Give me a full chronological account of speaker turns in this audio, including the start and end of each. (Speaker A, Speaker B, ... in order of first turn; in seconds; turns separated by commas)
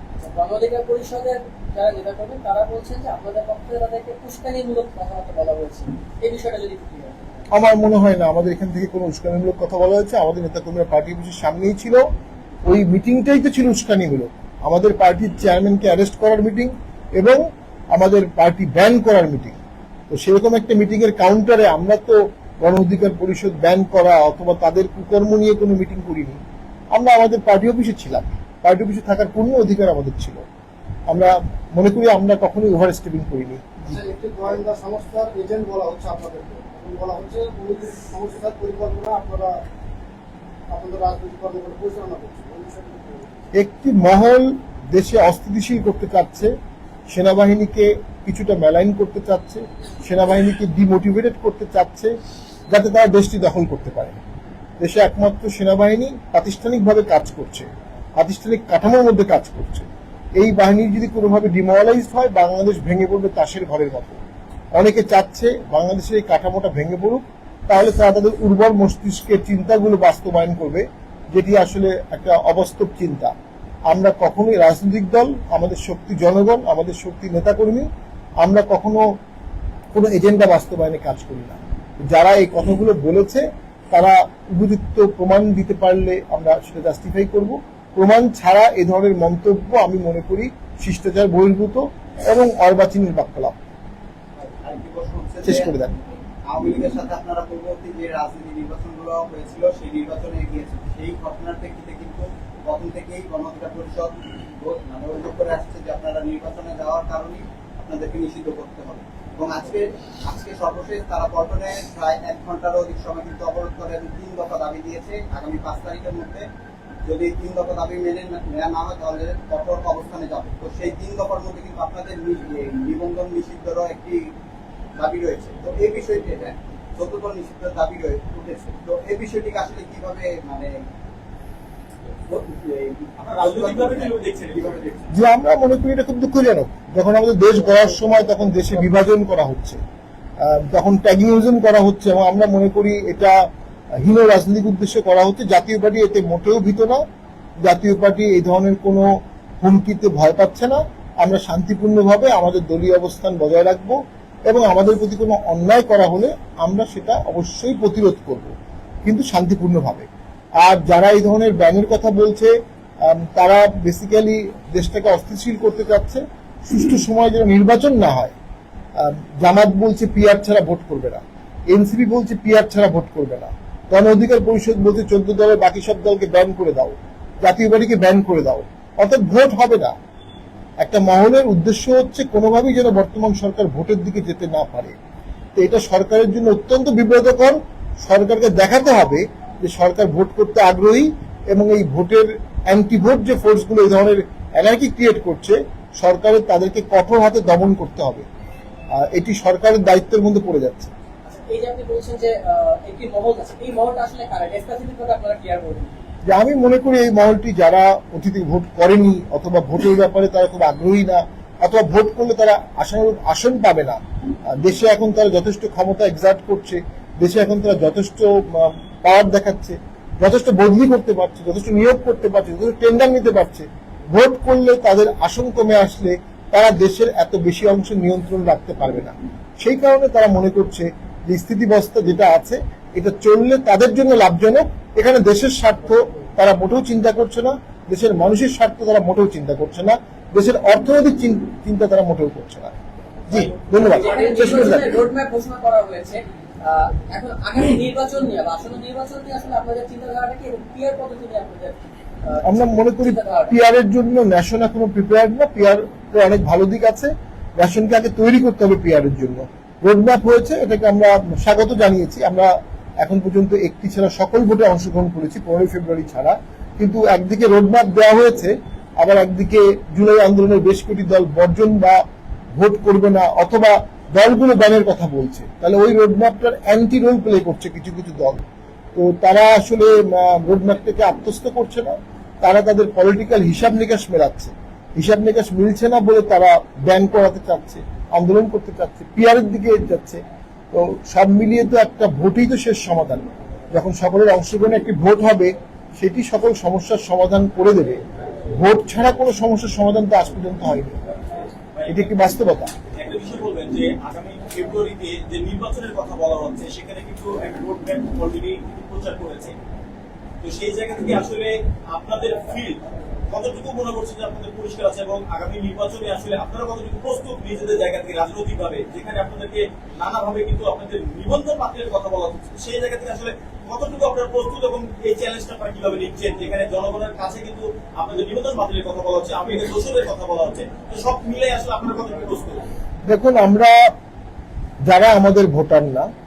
Speaker A: 0.2-7.2, Speaker B: 7.5-12.1, Speaker B: 12.6-17.4, Speaker B: 17.9-19.6, Speaker B: 20.1-26.4, Speaker B: 26.9-30.4, Speaker B: 31.1-34.0, Speaker C: 33.9-39.6, Speaker C: 40.7-43.3, Speaker B: 43.5-46.5, Speaker B: 47.1-52.1, Speaker B: 52.7-54.2, Speaker B: 54.8-57.7, Speaker B: 58.2-64.2, Speaker B: 64.7-73.3, Speaker B: 73.9-77.9, Speaker B: 78.4-79.0, Speaker B: 79.9-93.6, Speaker D: 94.4-95.8, Speaker B: 95.4-95.9, Speaker D: 96.5-116.5, Speaker D: 117.0-124.3, Speaker D: 125.0-130.8, Speaker D: 132.3-134.1, Speaker E: 133.2-135.1, Speaker B: 135.1-139.8, Speaker B: 140.4-143.5, Speaker B: 144.0-147.0, Speaker B: 147.6-158.5, Speaker B: 159.0-160.1, Speaker B: 160.6-168.3, Speaker B: 169.0-179.9, Speaker B: 180.8-184.9, Speaker B: 185.6-198.2, Speaker B: 198.9-200.9, Speaker A: 201.2-205.9, Speaker B: 206.3-242.8, Speaker B: 243.3-245.0, Speaker A: 243.8-253.5, Speaker B: 252.4-272.0, Speaker B: 272.6-278.4, Speaker B: 278.9-290.2, Speaker B: 290.7-301.0, Speaker E: 301.8-302.1, Speaker B: 301.9-302.7, Speaker E: 302.9-309.6, Speaker E: 310.4-332.6, Speaker B: 333.1-333.8, Speaker B: 334.9-336.1